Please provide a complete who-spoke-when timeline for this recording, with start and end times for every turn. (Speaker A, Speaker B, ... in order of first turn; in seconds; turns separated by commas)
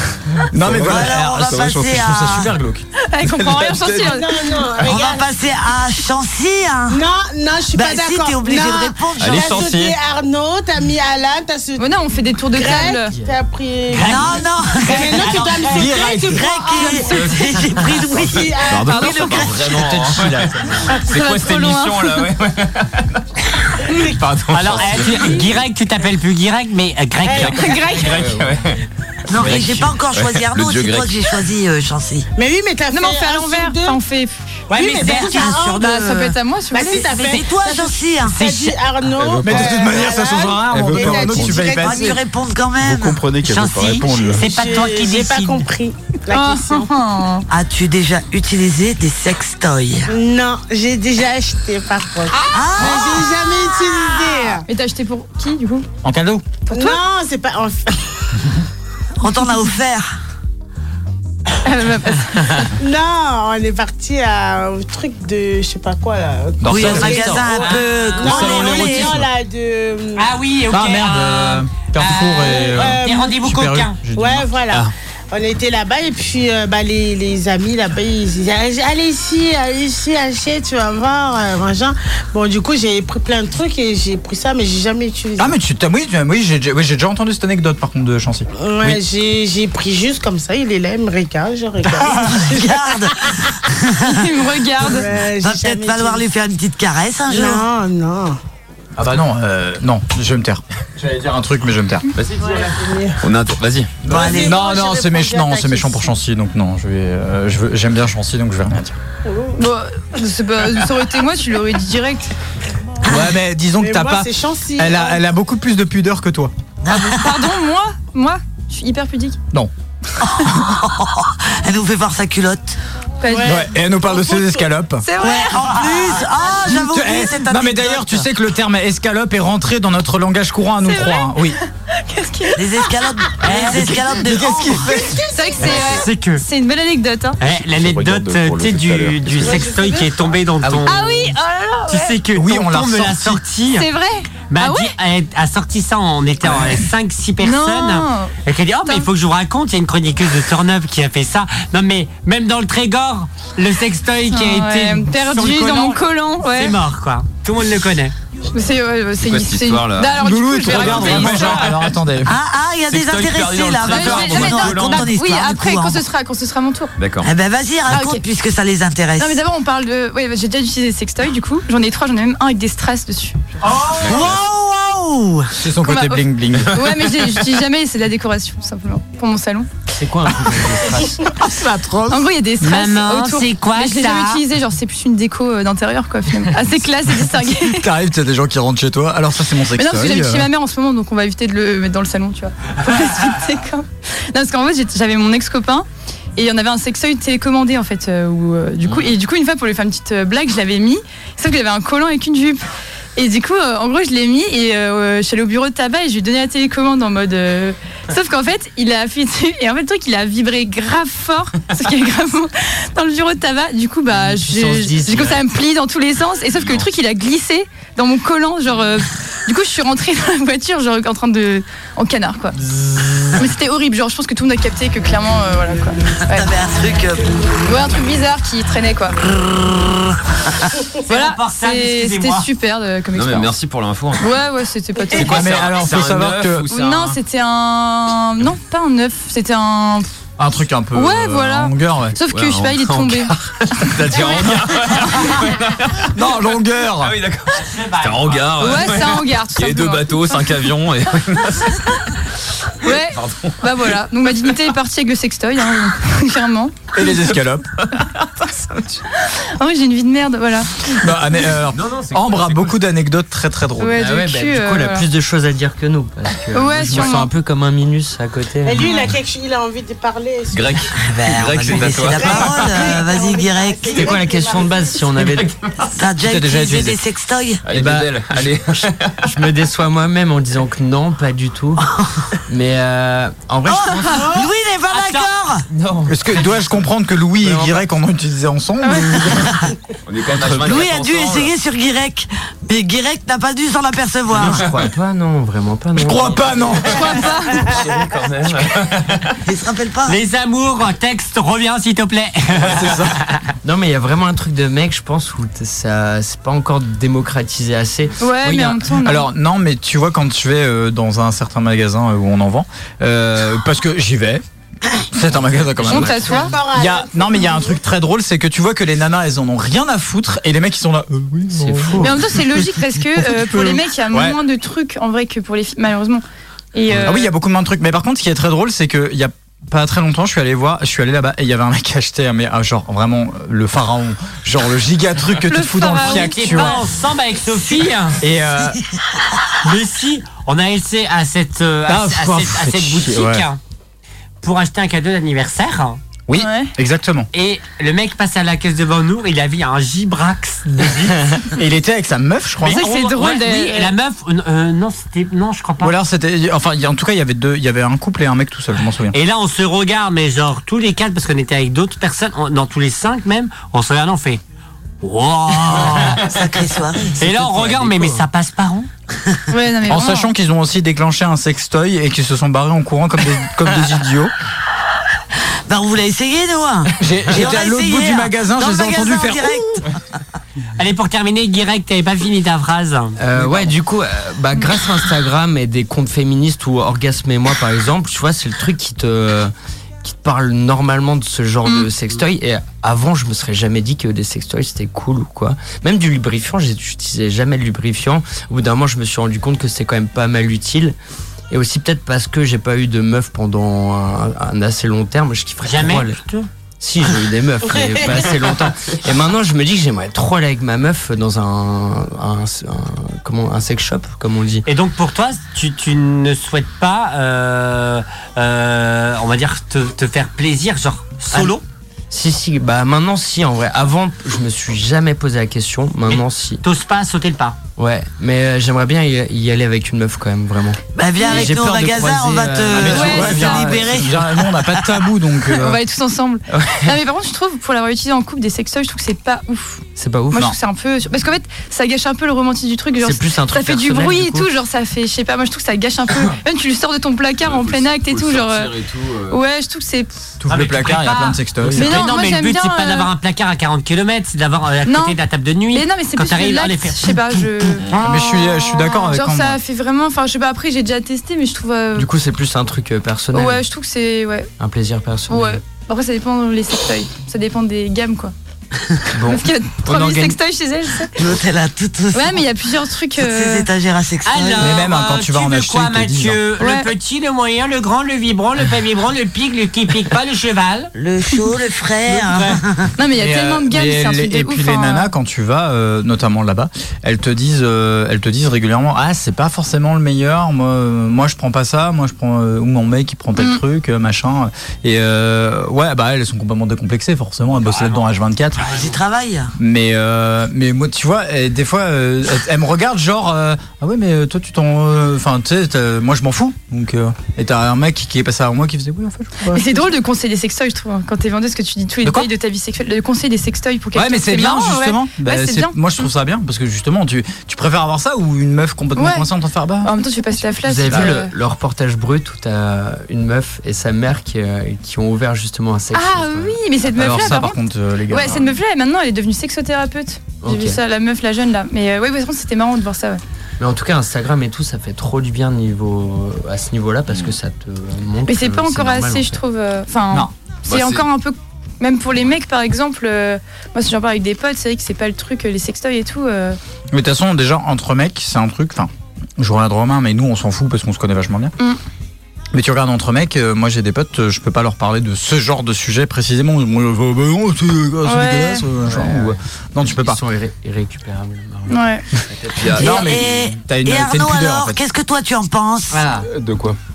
Speaker A: 0.5-2.8, Speaker B: 0.5-2.0, Speaker C: 0.7-2.5, Speaker D: 3.0-4.3, Speaker B: 3.3-4.0, Speaker E: 4.0-5.3, Speaker C: 4.8-7.0, Speaker E: 6.9-11.9, Speaker C: 7.7-9.7, Speaker F: 9.2-9.9, Speaker D: 11.8-13.1, Speaker E: 12.5-19.1, Speaker G: 13.9-15.9, Speaker C: 14.0-19.4, Speaker A: 15.7-17.2, Speaker F: 18.6-23.2, Speaker D: 18.8-19.7, Speaker A: 19.6-20.7, Speaker D: 20.9-22.3, Speaker F: 23.8-25.5, Speaker G: 24.5-28.1, Speaker E: 27.2-28.2, Speaker F: 27.4-28.8, Speaker D: 27.6-28.1, Speaker C: 29.3-32.3, Speaker F: 29.4-31.3, Speaker E: 32.4-34.0, Speaker D: 32.9-34.6, Speaker E: 34.7-35.9, Speaker G: 34.7-36.3, Speaker D: 35.7-37.1, Speaker E: 36.7-42.1, Speaker C: 37.1-38.5, Speaker G: 37.1-37.6, Speaker G: 38.3-38.7, Speaker B: 39.1-39.9, Speaker A: 39.4-42.2, Speaker B: 40.7-41.6, Speaker C: 40.9-43.2, Speaker B: 42.8-44.5, Speaker G: 43.4-45.6, Speaker E: 44.0-46.9, Speaker D: 46.3-47.4, Speaker C: 47.5-50.1, Speaker E: 50.1-54.6, Speaker C: 52.5-53.4, Speaker D: 54.6-55.9, Speaker A: 56.0-56.5, Speaker D: 56.7-57.0, Speaker E: 56.7-58.1, Speaker C: 59.2-60.1, Speaker D: 61.6-62.7, Speaker E: 62.8-70.2, Speaker A: 66.6-67.5, Speaker C: 66.6-69.2, Speaker G: 67.5-68.8, Speaker A: 68.2-69.2, Speaker G: 70.2-74.0, Speaker A: 70.7-74.5, Speaker E: 72.4-73.4, Speaker E: 74.2-85.5, Speaker A: 85.4-89.0, Speaker E: 88.6-92.7, Speaker C: 92.1-94.1, Speaker D: 94.0-95.1, Speaker E: 94.8-96.2, Speaker C: 95.1-97.7, Speaker E: 97.3-98.4, Speaker A: 99.0-102.1, Speaker E: 102.3-103.2, Speaker F: 103.2-103.9, Speaker A: 104.0-109.0, Speaker E: 104.0-106.1, Speaker C: 104.1-104.6, Speaker E: 109.2-109.6, Speaker D: 109.6-112.3, Speaker A: 113.0-116.5, Speaker E: 113.8-115.2, Speaker C: 116.8-117.5, Speaker D: 116.9-119.4, Speaker C: 120.2-122.8, Speaker D: 123.2-123.6, Speaker E: 123.3-124.7, Speaker A: 123.4-125.0, Speaker D: 125.0-126.3, Speaker C: 125.2-128.2, Speaker A: 125.9-131.6, Speaker D: 130.8-132.9, Speaker C: 132.5-135.2, Speaker G: 133.4-133.8, Speaker A: 133.4-135.2, Speaker D: 135.3-137.4, Speaker G: 135.7-136.4, Speaker G: 137.4-141.3, Speaker B: 137.5-139.6, Speaker E: 139.5-140.0, Speaker A: 140.6-141.0, Speaker D: 140.8-142.2, Speaker G: 141.9-143.8, Speaker A: 142.3-143.4, Speaker D: 143.7-144.9, Speaker G: 144.5-158.1, Speaker D: 147.4-149.1, Speaker D: 154.3-156.8, Speaker D: 158.5-161.8, Speaker F: 159.2-161.5, Speaker A: 160.1-162.3, Speaker C: 162.2-166.0, Speaker F: 162.9-165.1, Speaker D: 163.8-166.9, Speaker F: 167.0-167.3, Speaker C: 167.2-169.4, Speaker D: 167.9-168.2, Speaker D: 169.2-173.4, Speaker C: 173.6-175.5, Speaker F: 174.0-174.4, Speaker A: 175.6-176.8, Speaker D: 175.8-179.7, Speaker H: 179.9-181.2, Speaker A: 181.3-182.3, Speaker D: 182.1-187.8, Speaker G: 182.6-184.4, Speaker A: 187.4-190.5, Speaker D: 189.7-195.8, Speaker D: 196.4-202.6, Speaker D: 203.2-222.6, Speaker H: 214.1-215.4, Speaker D: 223.3-226.5, Speaker C: 226.2-227.6, Speaker D: 227.6-229.2, Speaker C: 229.2-230.7, Speaker G: 231.0-232.5, Speaker D: 231.1-233.5, Speaker F: 233.1-234.3, Speaker D: 234.2-235.5, Speaker A: 235.1-236.7, Speaker F: 235.1-237.2, Speaker D: 236.7-240.1, Speaker A: 240.4-242.2, Speaker D: 240.9-243.3, Speaker F: 242.3-246.2, Speaker D: 244.1-244.4, Speaker A: 244.2-244.7, Speaker A: 246.1-247.2, Speaker F: 247.0-252.0, Speaker G: 247.5-248.8, Speaker D: 248.6-250.7, Speaker D: 252.8-257.3, Speaker F: 252.8-253.9, Speaker A: 256.9-257.7, Speaker F: 257.8-258.8, Speaker D: 259.2-260.9, Speaker A: 260.9-264.1, Speaker F: 261.7-262.8, Speaker D: 263.8-265.1, Speaker H: 264.0-269.1, Speaker D: 266.5-267.3, Speaker E: 268.6-270.9, Speaker F: 270.5-272.7, Speaker C: 271.0-274.1, Speaker E: 271.7-275.0, Speaker H: 273.9-275.5, Speaker F: 275.2-275.9, Speaker C: 275.9-277.6, Speaker A: 276.2-277.0, Speaker F: 277.6-279.2, Speaker A: 277.8-278.1, Speaker H: 277.8-281.8, Speaker H: 282.5-284.4, Speaker C: 283.6-285.6, Speaker G: 284.9-285.3, Speaker H: 285.8-286.0, Speaker F: 285.8-286.1, Speaker A: 286.1-289.7, Speaker H: 287.4-287.8, Speaker D: 288.8-289.4, Speaker F: 290.1-291.5, Speaker C: 290.3-294.7, Speaker F: 294.3-294.9, Speaker H: 294.3-297.8, Speaker A: 296.0-297.2, Speaker D: 296.9-297.7, Speaker F: 297.7-299.4, Speaker C: 299.4-300.2, Speaker G: 300.1-303.4, Speaker A: 302.6-303.2, Speaker H: 303.6-308.6, Speaker D: 308.2-309.3, Speaker A: 309.0-314.4, Speaker A: 315.1-324.4, Speaker H: 315.3-316.6, Speaker D: 315.9-316.5, Speaker E: 316.5-317.7, Speaker H: 321.5-322.2, Speaker D: 322.0-326.2, Speaker D: 326.7-327.3, Speaker A: 326.9-336.8, Speaker D: 335.4-336.8, Speaker G: 336.0-338.2, Speaker A: 338.2-338.8, Speaker G: 339.6-343.6, Speaker A: 341.9-343.5, Speaker G: 344.4-346.0, Speaker A: 346.3-347.3, Speaker D: 346.3-346.7, Speaker G: 347.3-351.1, Speaker A: 351.4-352.9, Speaker G: 352.6-355.9, Speaker D: 352.7-353.9, Speaker A: 355.8-359.2, Speaker G: 359.1-364.4, Speaker G: 365.0-366.2, Speaker C: 366.1-367.2, Speaker G: 367.1-368.9, Speaker H: 367.3-368.1, Speaker D: 369.5-370.3, Speaker A: 369.9-374.3, Speaker C: 375.7-380.0, Speaker A: 377.0-379.8, Speaker G: 380.8-383.7, Speaker H: 383.2-389.5, Speaker H: 390.0-400.9, Speaker H: 401.5-406.2, Speaker G: 405.6-406.5, Speaker H: 406.8-414.6, Speaker G: 414.6-421.6, Speaker H: 421.3-421.6, Speaker H: 422.1-426.6, Speaker G: 426.1-427.6, Speaker H: 427.8-434.0, Speaker C: 430.9-434.2, Speaker A: 432.7-435.8, Speaker D: 432.9-433.6, Speaker H: 434.5-434.9, Speaker D: 435.5-448.7, Speaker H: 436.5-436.9, Speaker H: 439.9-440.5, Speaker H: 443.0-444.5, Speaker F: 447.4-449.4, Speaker D: 449.3-450.1, Speaker A: 450.4-452.1, Speaker G: 450.5-457.8, Speaker D: 451.7-453.1, Speaker D: 454.9-455.1, Speaker D: 455.7-462.1, Speaker A: 457.9-459.6, Speaker H: 461.9-463.6, Speaker D: 463.3-464.5, Speaker H: 464.6-465.6, Speaker D: 465.3-468.3, Speaker H: 469.1-470.4, Speaker D: 469.2-471.1, Speaker C: 471.1-472.4, Speaker D: 472.1-473.7, Speaker C: 473.2-474.8, Speaker G: 474.2-480.9, Speaker A: 474.6-476.4, Speaker D: 476.6-476.9, Speaker C: 480.9-482.9, Speaker D: 483.0-485.1, Speaker A: 483.1-498.6, Speaker D: 493.4-493.6, Speaker G: 497.6-499.0, Speaker C: 498.6-499.5, Speaker A: 499.6-509.9, Speaker D: 509.5-515.9, Speaker A: 512.0-512.3, Speaker A: 513.9-520.0, Speaker D: 519.0-519.3, Speaker D: 519.8-521.3, Speaker H: 520.6-526.6, Speaker D: 525.9-533.2, Speaker A: 526.9-528.6, Speaker H: 530.4-530.8, Speaker H: 533.6-539.4, Speaker F: 537.1-537.3, Speaker D: 538.3-546.6, Speaker F: 540.6-541.0, Speaker A: 546.9-551.5, Speaker A: 552.5-560.2, Speaker D: 558.0-558.6, Speaker H: 558.8-562.8, Speaker D: 561.7-562.0, Speaker F: 562.5-563.5, Speaker A: 562.8-564.8, Speaker C: 562.8-566.1, Speaker H: 565.9-566.3, Speaker B: 566.2-566.8